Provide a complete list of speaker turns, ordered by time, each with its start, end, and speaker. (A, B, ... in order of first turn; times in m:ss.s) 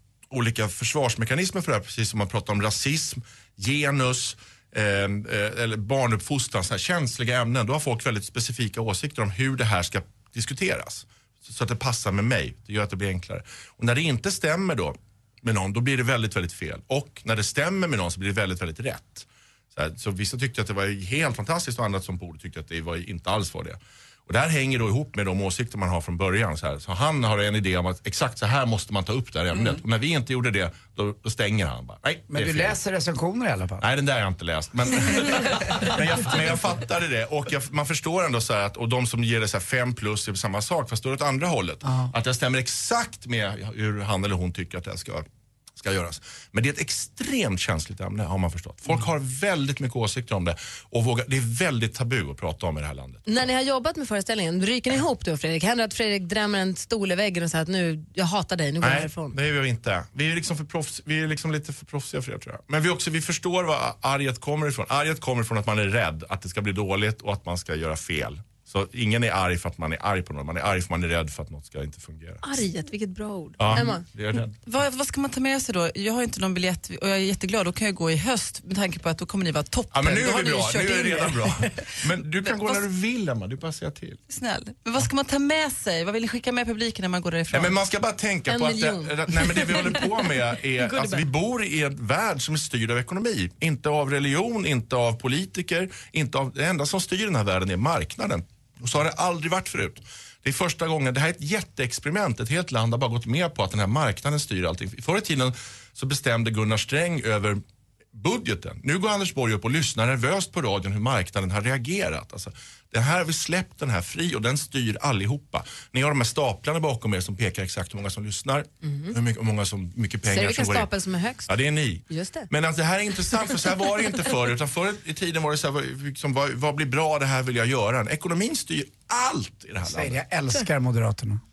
0:00.3-0:32.7 A
0:32.3-0:33.8 B
0:33.8-0:45.2 A
0:45.8-0:53.2 A
0:53.2-0:59.3 C
0:58.8-1:12.6 A
1:12.4-1:14.0 C
1:13.6-1:14.6 A
1:14.6-1:22.8 D
1:19.9-1:24.2 A
1:24.3-1:27.8 D
1:27.5-1:47.6 A
1:28.5-1:30.1 C
1:48.1-2:00.9 A
1:58.8-1:59.1 C
2:00.2-2:01.5 C
2:01.5-2:10.2 A
2:02.1-2:02.5 C
2:09.8-2:11.4 B